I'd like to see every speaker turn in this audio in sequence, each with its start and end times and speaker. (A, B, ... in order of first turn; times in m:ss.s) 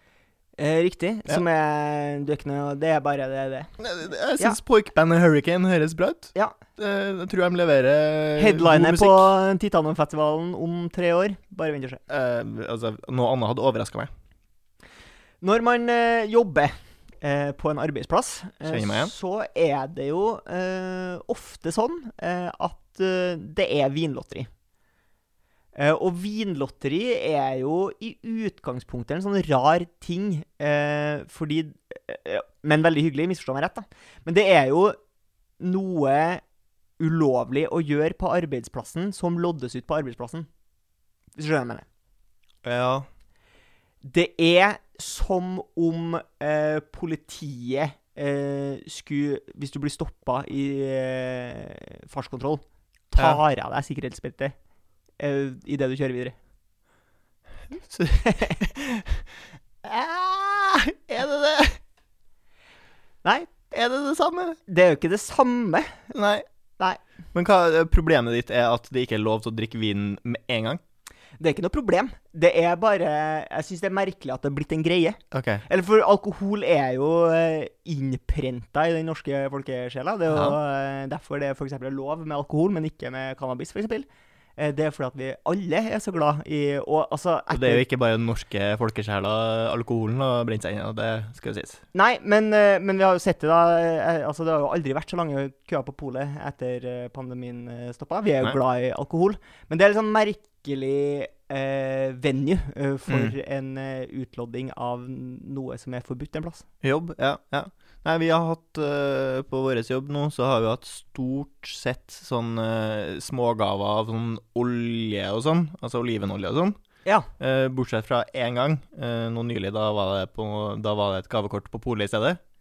0:00.6-0:03.7 A
0:03.8-0:09.3 B
0:08.4-0:12.0 A
0:12.1-0:14.1 B
0:15.4-0:24.5 A
0:18.6-0:19.1 B
0:25.7-0:35.0 A
0:35.6-0:36.4 A
0:37.0-0:40.5 A
0:41.4-0:41.8 A
0:42.6-0:43.0 B
0:44.0-0:54.5 A
0:55.2-0:56.3 A
0:57.9-0:59.2 B
0:59.8-1:01.8 B
1:03.2-1:03.5 A
1:03.7-1:04.6 B
1:04.7-1:06.0 A
1:06.1-1:06.4 B
1:07.3-1:10.8 B
1:11.4-1:27.8 A
1:15.3-1:15.6 B
1:20.3-1:20.6 B
1:27.5-1:31.8 B
1:31.9-1:46.6 A
1:43.1-1:43.3 B
1:46.8-1:56.8 B
1:57.4-2:02.4 B